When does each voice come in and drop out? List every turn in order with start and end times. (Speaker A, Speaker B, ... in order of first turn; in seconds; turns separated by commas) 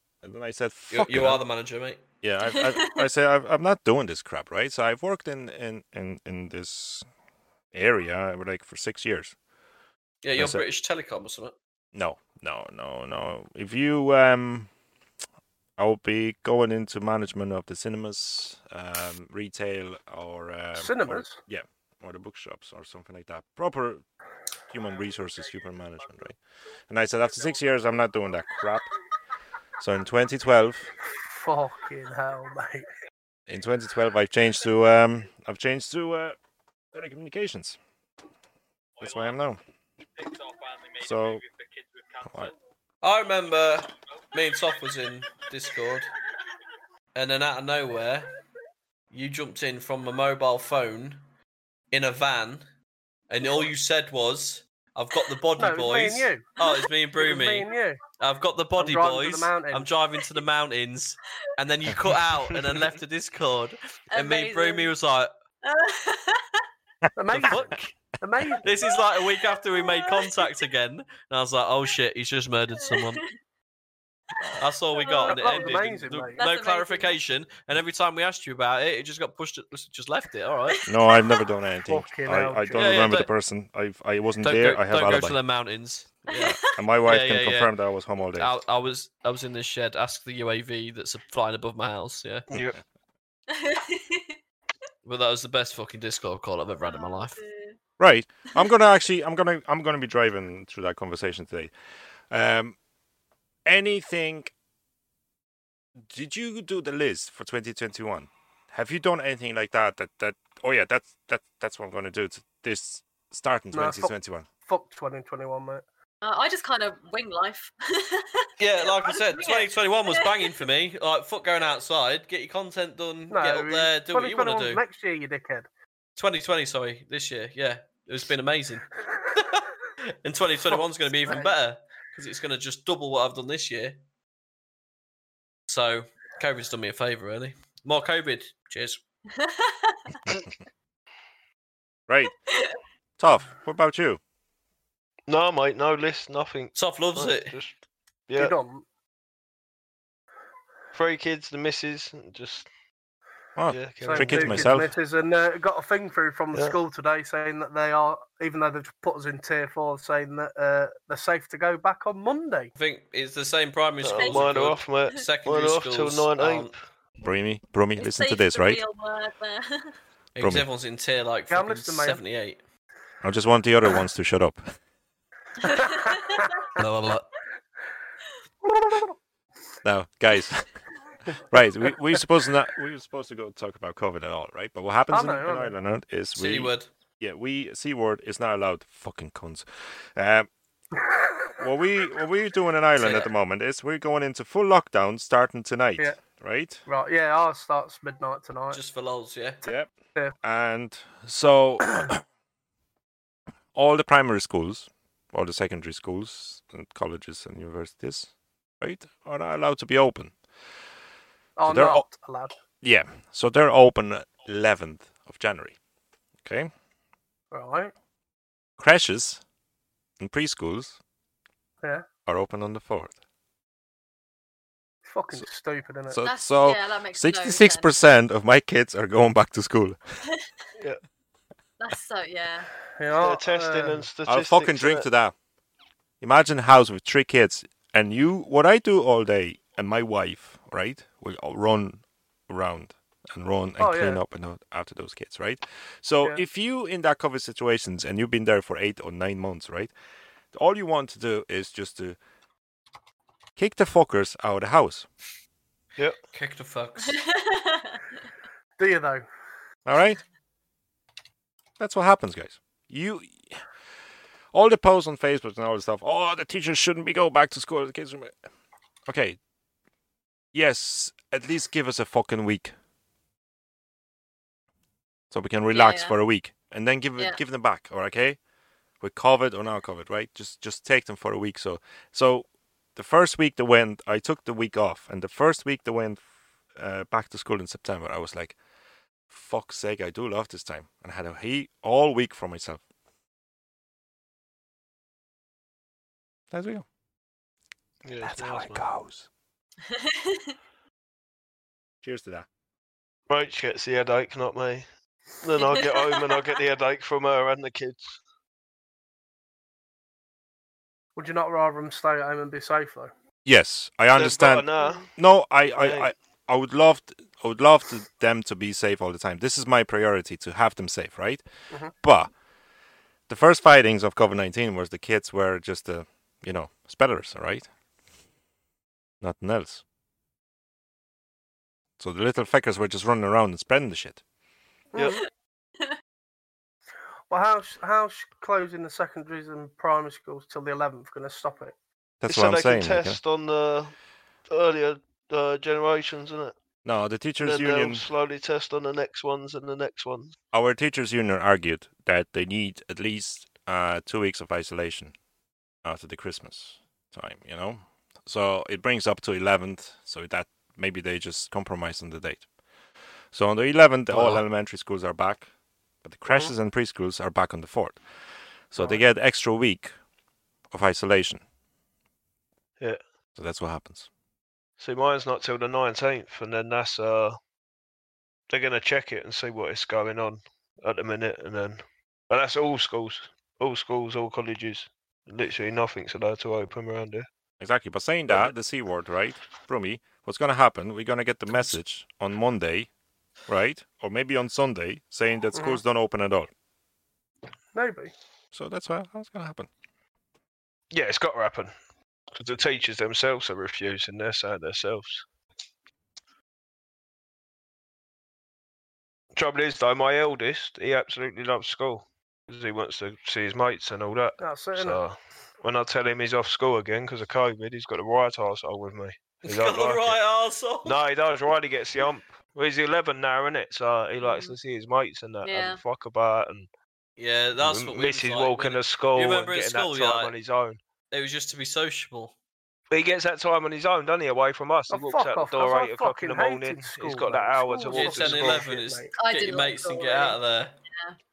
Speaker A: 0.2-1.4, Speaker B: 0.9-2.0, Speaker A: 2.2-7.1, Speaker C: 2.5-2.9, Speaker A: 7.7-9.3, Speaker B: 10.2-11.5, Speaker A: 10.4-10.6, Speaker A: 11.9-14.7, Speaker A: 15.8-24.0, Speaker D: 20.8-21.4, Speaker A: 24.7-26.4, Speaker A: 26.9-28.9, Speaker A: 29.8-30.9, Speaker D: 31.2-32.9, Speaker A: 33.5-36.4, Speaker A: 36.9-37.8, Speaker A: 39.0-39.6, Speaker A: 41.0-41.5, Speaker A: 42.2-42.5, Speaker B: 43.0-46.1, Speaker B: 47.1-48.3, Speaker B: 49.1-51.2, Speaker B: 51.9-52.6, Speaker B: 53.3-65.3, Speaker D: 55.6-56.5, Speaker C: 56.6-56.9, Speaker D: 57.2-58.0, Speaker D: 58.8-59.9, Speaker C: 64.1-64.9, Speaker C: 65.6-66.6, Speaker D: 67.2-68.7, Speaker A: 67.3-67.7, Speaker B: 67.3-67.9, Speaker B: 68.6-73.2, Speaker C: 68.9-70.6, Speaker C: 72.8-73.3, Speaker C: 74.5-75.7, Speaker B: 74.6-80.8, Speaker D: 75.3-76.4, Speaker C: 76.4-77.2, Speaker C: 80.7-81.4, Speaker A: 80.9-85.4, Speaker D: 81.9-83.1, Speaker B: 82.8-83.3, Speaker B: 84.4-87.7, Speaker A: 86.3-88.5, Speaker C: 86.3-86.7, Speaker B: 88.3-92.4, Speaker E: 92.5-92.8, Speaker C: 93.5-94.3, Speaker B: 95.0-97.4, Speaker C: 96.8-97.8, Speaker A: 98.0-101.7, Speaker A: 102.3-102.8, Speaker A: 103.7-104.5, Speaker A: 106.1-114.5, Speaker D: 113.7-114.1, Speaker D: 114.7-115.8, Speaker C: 116.2-120.6, Speaker B: 118.6-124.8, Speaker D: 123.3-125.7, Speaker B: 126.2-129.6, Speaker B: 130.2-134.0, Speaker D: 131.3-131.5, Speaker B: 135.7-139.0, Speaker C: 139.4-140.0, Speaker A: 142.1-142.3, Speaker A: 143.2-144.2, Speaker E: 145.3-147.8, Speaker B: 146.8-147.6, Speaker E: 148.3-148.6, Speaker D: 148.4-148.8, Speaker E: 150.9-152.7, Speaker A: 153.6-154.9, Speaker E: 153.7-154.8, Speaker D: 154.0-162.7, Speaker B: 162.8-166.7, Speaker E: 164.0-166.8, Speaker C: 164.1-165.0, Speaker A: 167.2-168.8, Speaker C: 168.0-169.9, Speaker B: 170.3-172.6, Speaker A: 170.4-170.7, Speaker D: 171.5-172.2, Speaker A: 173.2-174.7, Speaker C: 175.6-176.2, Speaker D: 175.6-176.5, Speaker B: 176.8-177.3, Speaker D: 178.6-179.1, Speaker A: 179.8-180.7, Speaker A: 181.5-190.5, Speaker D: 185.1-185.7, Speaker B: 186.3-186.9, Speaker A: 191.6-196.8, Speaker B: 193.0-193.3, Speaker D: 196.9-198.8, Speaker B: 198.7-199.6, Speaker A: 199.7-199.9, Speaker D: 199.7-200.3, Speaker A: 200.4-202.2, Speaker A: 203.8-210.3, Speaker D: 211.6-212.5, Speaker A: 211.7-212.1, Speaker A: 212.8-215.8, Speaker A: 216.4-216.7, Speaker D: 217.5-217.9, Speaker A: 218.8-219.4, Speaker A: 220.2-221.0, Speaker A: 222.2-223.1, Speaker D: 225.1-226.2, Speaker A: 226.1-230.0, Speaker C: 226.2-227.9, Speaker C: 231.8-232.7, Speaker D: 233.0-234.1, Speaker E: 233.1-235.1, Speaker A: 234.2-235.3, Speaker A: 236.2-249.9, Speaker D: 243.8-244.2, Speaker A: 250.5-252.2, Speaker A: 253.6-255.1, Speaker B: 256.3-257.2, Speaker C: 257.1-258.0, Speaker D: 258.8-259.2, Speaker A: 259.9-260.2, Speaker A: 261.8-263.6, Speaker A: 264.5-268.4, Speaker A: 269.1-269.4, Speaker A: 270.5-272.8, Speaker A: 275.3-278.4, Speaker C: 275.7-276.1, Speaker A: 279.0-286.2, Speaker A: 286.7-288.6, Speaker A: 289.3-292.8, Speaker A: 296.5-296.9, Speaker E: 298.1-298.9, Speaker A: 298.2-299.3, Speaker C: 299.9-300.5, Speaker A: 302.0-302.5, Speaker E: 303.3-304.9, Speaker E: 305.4-308.2, Speaker C: 305.6-306.6, Speaker D: 311.1-313.1, Speaker A: 313.4-321.4, Speaker E: 314.1-315.1, Speaker E: 315.8-316.1, Speaker A: 322.0-322.3, Speaker A: 323.3-327.7, Speaker A: 329.2-329.8, Speaker A: 332.0-334.2, Speaker D: 334.9-335.2, Speaker E: 335.0-335.2, Speaker D: 337.3-341.8, Speaker A: 342.2-343.2, Speaker E: 342.2-343.9, Speaker E: 344.5-346.6, Speaker A: 346.8-348.1, Speaker E: 347.4-350.4, Speaker A: 350.5-355.1, Speaker A: 355.8-362.5, Speaker A: 363.3-365.5, Speaker A: 366.0-368.0, Speaker A: 368.7-369.9, Speaker A: 370.7-371.4, Speaker A: 373.4-374.1, Speaker E: 374.8-377.4, Speaker E: 378.5-387.3, Speaker A: 387.6-392.9, Speaker A: 393.5-396.5, Speaker D: 395.6-395.8, Speaker D: 397.7-398.1, Speaker A: 398.5-399.7, Speaker E: 400.9-401.7, Speaker E: 402.3-405.2, Speaker E: 409.4-420.2, Speaker D: 414.4-415.0, Speaker B: 419.4-421.0, Speaker E: 420.8-426.7, Speaker C: 424.2-424.6, Speaker C: 425.4-425.8, Speaker B: 427.2-430.3, Speaker E: 427.6-430.8, Speaker B: 431.1-432.3, Speaker E: 432.9-438.7, Speaker D: 434.9-439.1, Speaker B: 437.9-440.8, Speaker C: 439.1-440.4